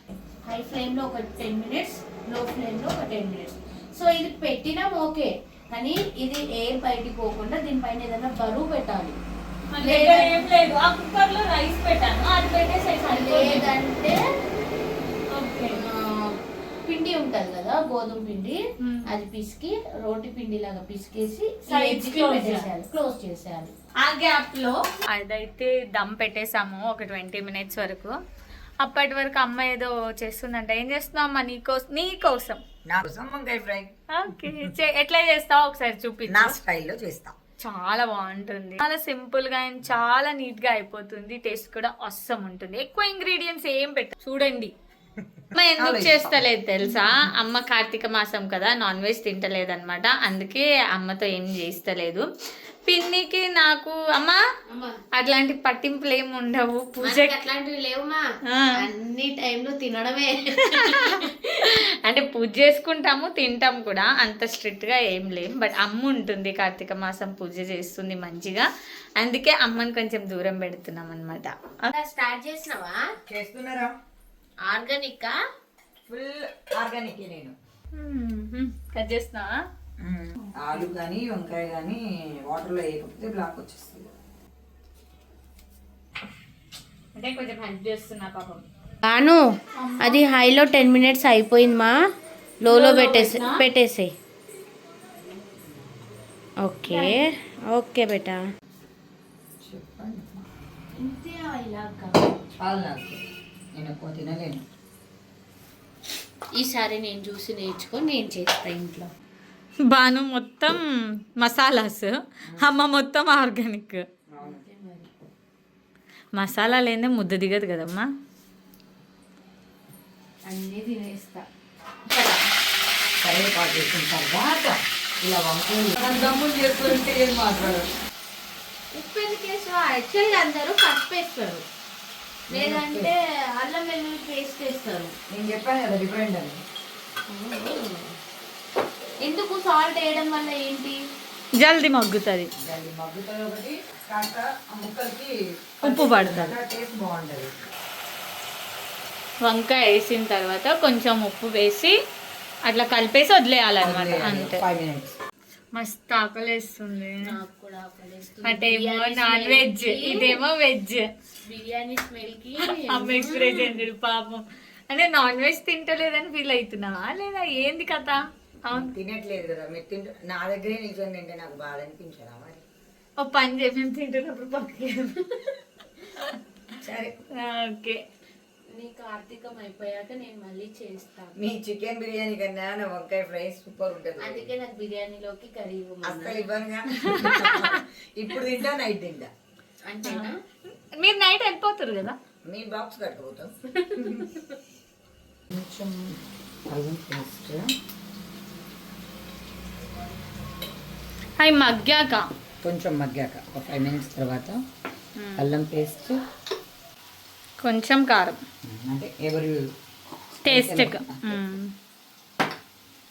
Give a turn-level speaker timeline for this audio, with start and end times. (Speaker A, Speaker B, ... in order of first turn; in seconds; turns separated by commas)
Speaker A: 0.4-9.2, Speaker B: 9.7-13.7, Speaker A: 9.8-10.4, Speaker A: 13.1-14.2, Speaker B: 15.3-15.8, Speaker A: 15.7-23.7, Speaker B: 18.8-19.1, Speaker B: 21.7-22.7, Speaker B: 24.0-28.1, Speaker B: 28.8-32.6, Speaker C: 32.9-34.7, Speaker B: 34.1-36.6, Speaker C: 36.3-37.4, Speaker B: 37.6-44.7, Speaker B: 45.5-52.2, Speaker C: 45.8-46.3, Speaker B: 52.9-54.4, Speaker A: 54.7-55.0, Speaker B: 55.2-57.4, Speaker A: 57.0-58.2, Speaker A: 58.8-61.8, Speaker B: 60.7-68.7, Speaker B: 69.2-71.9, Speaker A: 71.9-73.0, Speaker C: 73.3-73.9, Speaker A: 74.7-75.4, Speaker C: 76.1-77.5, Speaker B: 77.9-79.6, Speaker C: 80.0-84.2, Speaker B: 87.1-88.6, Speaker A: 89.0-89.4, Speaker B: 89.8-90.2, Speaker A: 90.0-91.9, Speaker A: 92.6-94.1, Speaker B: 92.7-93.6, Speaker A: 96.6-98.4, Speaker B: 96.9-97.2, Speaker C: 99.6-100.5, Speaker A: 101.0-102.3, Speaker C: 102.6-103.2, Speaker C: 103.7-104.6, Speaker A: 106.6-109.1, Speaker B: 109.9-110.8, Speaker B: 111.4-114.0, Speaker C: 114.3-114.6, Speaker A: 114.4-115.1, Speaker B: 116.3-118.1, Speaker A: 120.5-121.5, Speaker A: 122.1-122.4, Speaker C: 123.2-127.9, Speaker A: 128.9-131.6, Speaker C: 132.5-133.1, Speaker A: 132.5-135.2, Speaker C: 135.3-136.6, Speaker A: 137.3-138.2, Speaker A: 139.2-141.0, Speaker B: 141.6-142.5, Speaker C: 142.6-147.5, Speaker B: 145.8-146.6, Speaker B: 149.4-151.9, Speaker B: 152.7-154.6, Speaker C: 153.8-155.2, Speaker B: 155.7-157.3, Speaker A: 157.2-160.4, Speaker B: 158.4-161.1, Speaker A: 161.4-163.9, Speaker B: 162.6-168.9, Speaker C: 168.7-172.6, Speaker B: 173.2-175.5, Speaker C: 176.8-177.2, Speaker B: 177.3-178.0, Speaker A: 178.7-181.4, Speaker C: 181.4-184.5, Speaker A: 184.2-186.4, Speaker C: 186.0-189.3, Speaker B: 187.1-187.8, Speaker A: 189.8-190.4, Speaker B: 190.0-190.3, Speaker B: 191.0-192.2, Speaker C: 192.5-194.3, Speaker A: 193.8-194.4, Speaker C: 195.5-197.7, Speaker B: 201.4-202.3, Speaker C: 202.6-204.6, Speaker B: 205.2-205.4, Speaker C: 205.4-206.2, Speaker B: 207.6-208.4, Speaker C: 208.7-209.6, Speaker C: 210.4-211.4, Speaker B: 210.4-211.7